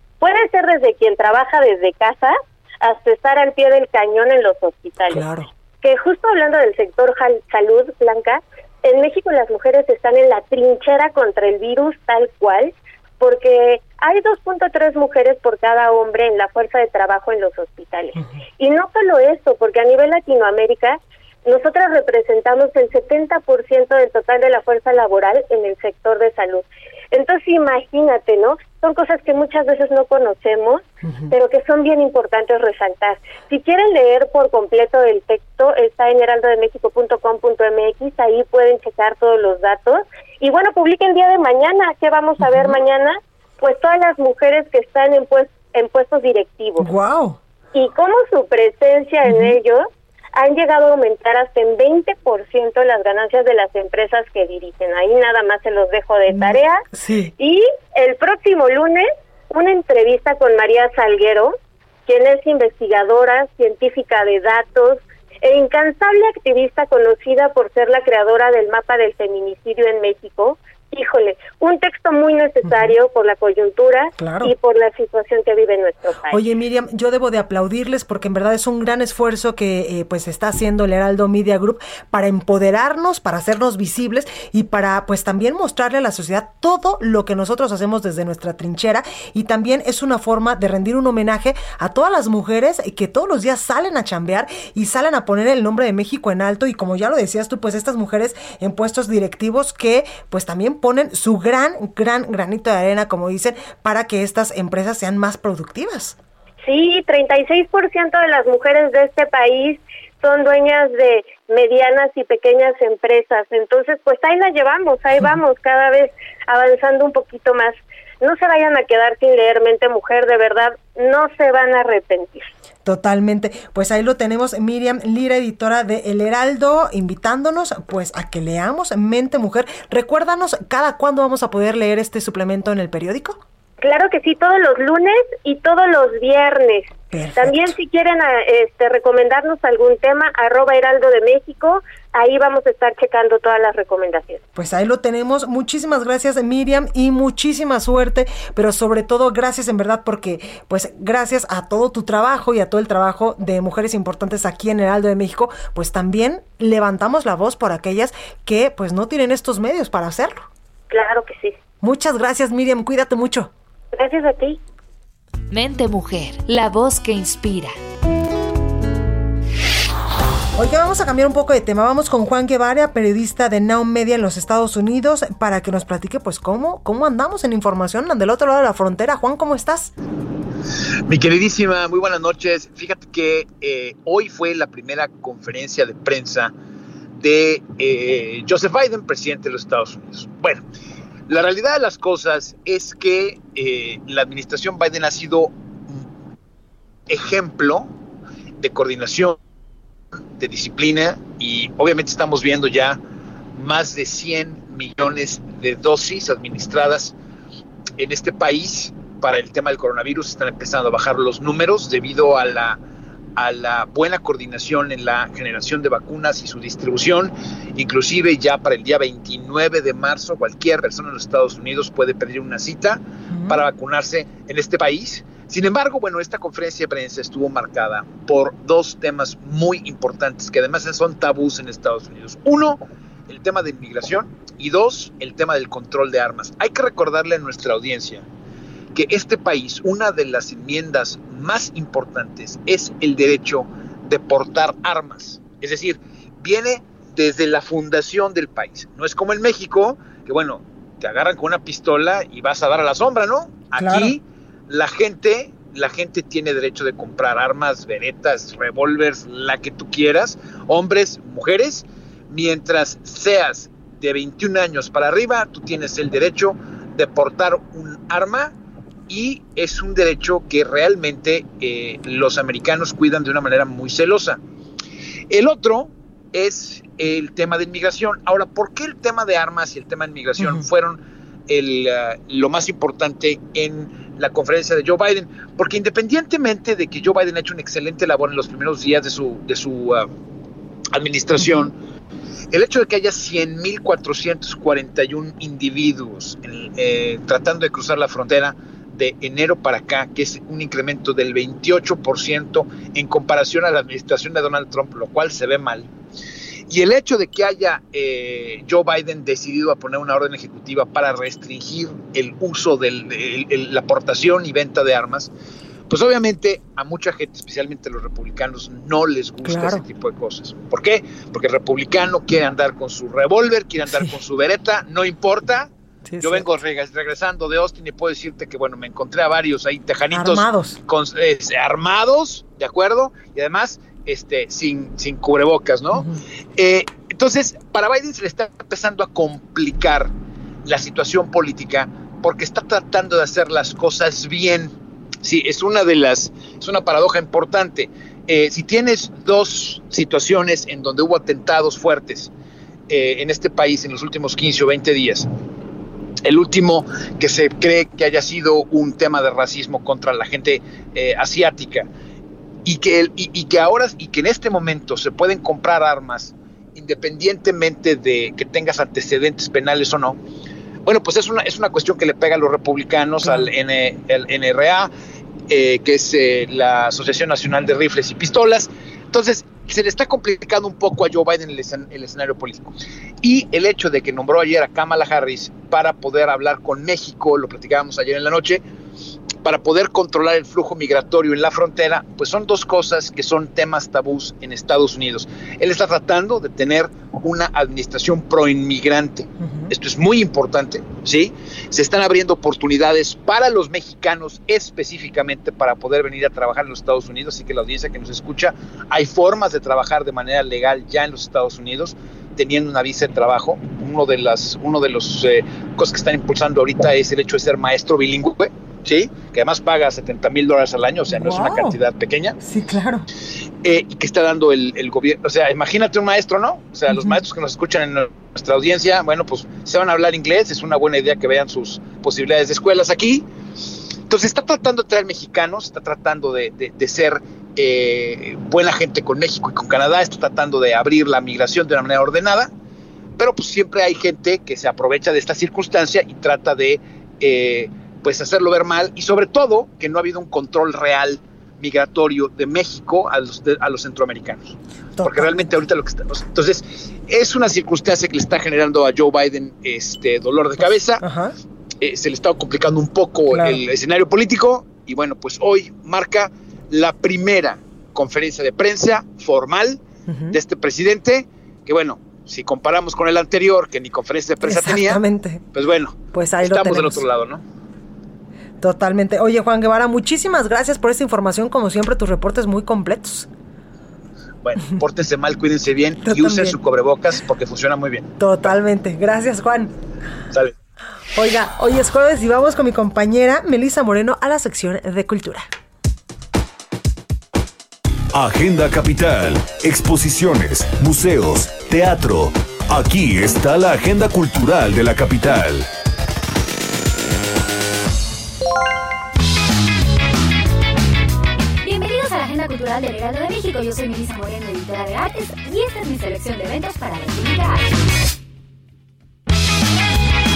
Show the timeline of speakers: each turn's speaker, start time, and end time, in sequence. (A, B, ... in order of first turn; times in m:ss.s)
0:00.2-0:05.2 A
0:05.1-0:05.5 B
0:05.8-0:46.9 A
0:31.0-0:31.3 B
0:42.4-0:42.8 B
0:46.8-0:47.4 B
0:47.7-0:56.8 A
0:49.2-0:49.6 B
0:56.3-0:57.3 B
0:57.4-1:01.5 A
1:02.1-1:16.4 A
1:12.6-1:12.9 B
1:14.2-1:14.5 B
1:16.3-1:46.2 B
1:46.6-2:02.5 A
2:02.8-2:13.4 B
2:13.8-2:24.4 A
2:17.1-2:17.7 B
2:24.5-2:40.5 B
2:40.9-2:41.6 A
2:41.8-2:43.5 B
2:43.9-2:44.6 A
2:45.5-2:47.8 C
2:50.6-2:59.9 B
3:01.1-3:06.5 D
3:07.2-3:10.6 D
3:11.3-3:16.0 D
3:17.1-3:17.9 D
3:18.6-3:19.4 D
3:20.4-3:23.0 D
3:23.5-3:27.1 D
3:28.0-3:32.8 D
3:33.4-3:58.2 D
3:43.3-3:43.6 B
3:58.9-4:28.5 D
4:13.8-4:14.2 B
4:29.1-4:34.4 D
4:35.3-4:50.1 D
4:40.4-4:40.6 B
4:50.9-4:51.7 D
4:52.5-5:05.9 D
5:06.7-5:15.3 D
5:15.9-5:40.1 D
5:19.4-5:19.8 B
5:26.1-5:26.4 B
5:30.1-5:30.8 B
5:35.9-5:36.2 B
5:40.6-5:52.3 D
5:52.9-5:55.3 D
5:56.2-6:01.9 D
6:02.6-6:10.2 D
6:10.8-6:14.9 D
6:13.2-6:13.5 B
6:15.5-6:28.6 D
6:29.4-7:02.4 D
6:39.4-6:39.7 B
7:01.1-7:01.8 B
7:02.4-7:03.0 B
7:03.6-7:13.2 D
7:06.9-7:07.2 B
7:14.1-7:22.5 D
7:23.2-7:41.0 D
7:35.0-7:35.5 B
7:40.6-7:41.3 B
7:41.8-7:55.0 D
7:43.3-7:43.6 B
7:50.1-7:50.4 B
7:54.4-7:55.4 B
7:55.5-7:57.4 D
7:56.1-7:57.0 B
7:58.6-8:03.3 B
8:04.4-8:08.5 D
8:06.0-8:06.6 B
8:08.2-8:09.7 B
8:11.1-8:15.5 B
8:18.1-8:25.7 E
8:31.6-8:37.7 F